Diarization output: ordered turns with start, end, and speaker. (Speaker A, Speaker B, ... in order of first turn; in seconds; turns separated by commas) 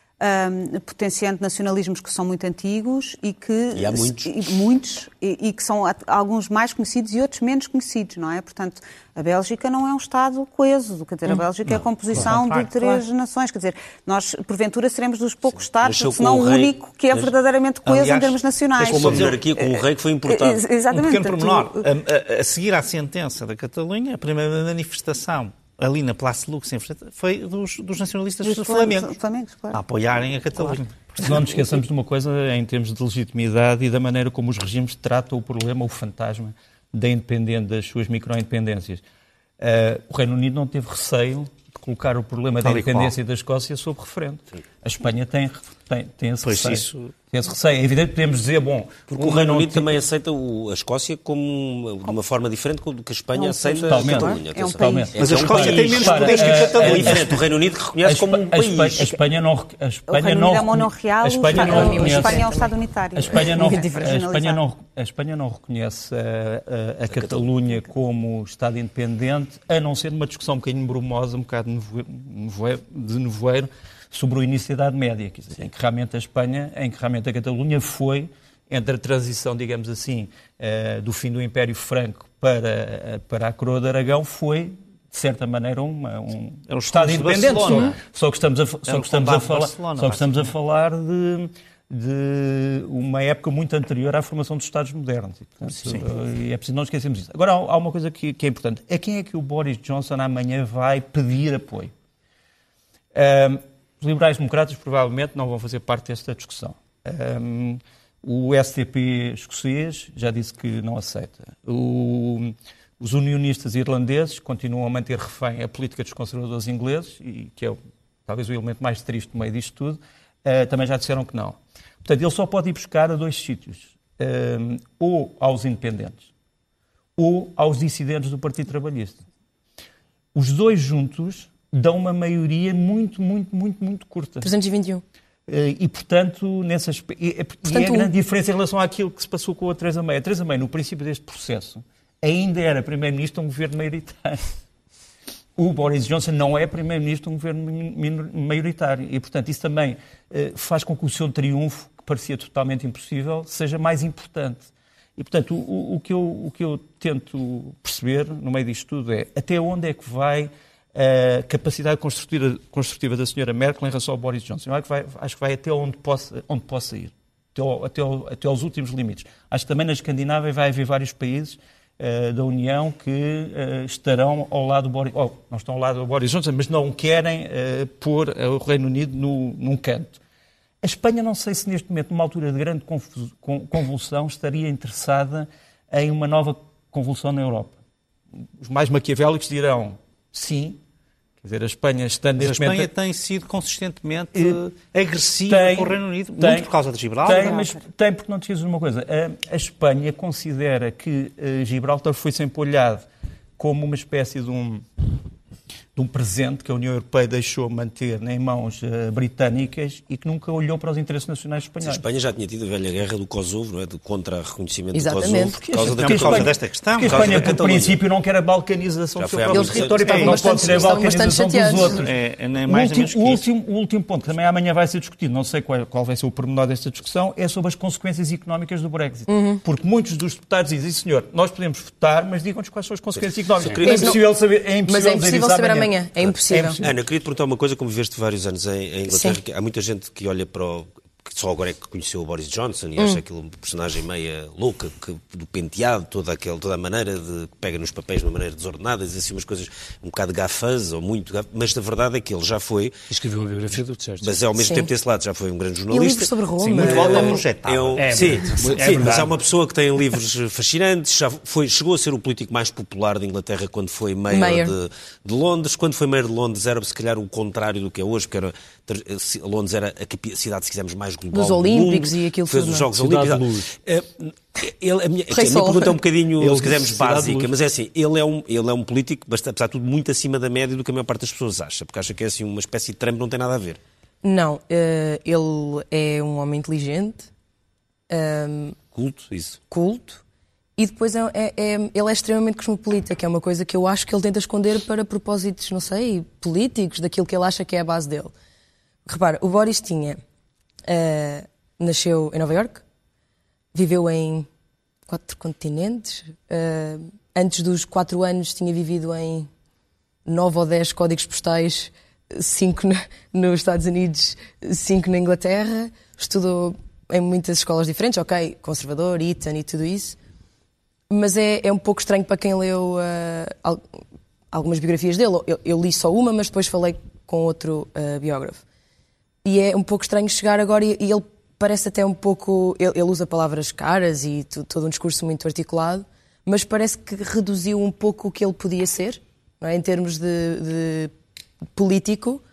Speaker A: 0.2-21.9, Speaker B: 3.8-4.3, Speaker C: 11.7-13.0, Speaker B: 15.8-17.3, Speaker C: 17.9-19.4, Speaker B: 18.8-20.6, Speaker C: 20.9-29.2, Speaker A: 28.4-29.8, Speaker C: 29.7-31.5, Speaker D: 31.2-39.0, Speaker D: 39.6-50.0, Speaker C: 42.6-43.1, Speaker C: 46.4-47.1, Speaker B: 49.1-59.1, Speaker A: 53.3-55.3, Speaker D: 53.9-57.4, Speaker C: 55.2-57.4, Speaker D: 58.0-62.6, Speaker A: 60.1-64.6, Speaker E: 61.5-62.7, Speaker D: 63.1-101.9, Speaker E: 63.3-64.1, Speaker B: 67.1-67.5, Speaker C: 86.7-88.0, Speaker C: 88.9-90.5, Speaker D: 103.2-126.2, Speaker D: 127.2-129.2, Speaker D: 130.3-134.5, Speaker E: 134.4-135.0, Speaker D: 135.5-144.4, Speaker E: 137.7-138.1, Speaker D: 145.6-154.6, Speaker D: 155.2-180.2, Speaker D: 180.8-187.7, Speaker D: 188.6-190.8, Speaker D: 191.4-192.9, Speaker C: 192.4-197.7, Speaker D: 194.3-194.6, Speaker D: 195.5-196.7, Speaker D: 197.2-203.1, Speaker D: 203.6-204.8, Speaker D: 206.0-212.0, Speaker B: 211.8-216.5, Speaker E: 214.9-215.6, Speaker C: 215.7-217.6, Speaker D: 215.8-222.2, Speaker B: 217.1-218.0, Speaker B: 219.2-220.9, Speaker E: 219.5-222.0, Speaker C: 219.9-220.7, Speaker C: 221.7-223.4, Speaker D: 222.7-237.0, Speaker E: 229.3-229.6, Speaker B: 233.6-234.1, Speaker E: 233.8-234.2, Speaker E: 234.9-236.8, Speaker B: 236.8-252.9, Speaker E: 239.1-239.4, Speaker F: 253.1-254.4, Speaker B: 254.2-283.8, Speaker E: 254.6-254.9, Speaker E: 255.9-257.4, Speaker C: 256.6-258.3, Speaker F: 258.0-259.4, Speaker E: 264.3-264.7, Speaker E: 271.3-272.9, Speaker D: 272.9-273.7, Speaker E: 275.3-276.0, Speaker D: 276.4-277.5, Speaker E: 284.2-287.3, Speaker E: 288.1-288.8, Speaker B: 288.9-289.6, Speaker E: 289.7-290.2, Speaker E: 290.8-298.3, Speaker E: 299.1-300.2, Speaker E: 300.9-302.8, Speaker E: 303.7-304.5, Speaker E: 305.1-309.5, Speaker E: 310.3-320.2, Speaker E: 321.1-324.0, Speaker E: 324.5-328.6, Speaker E: 329.4-341.1, Speaker E: 341.8-342.4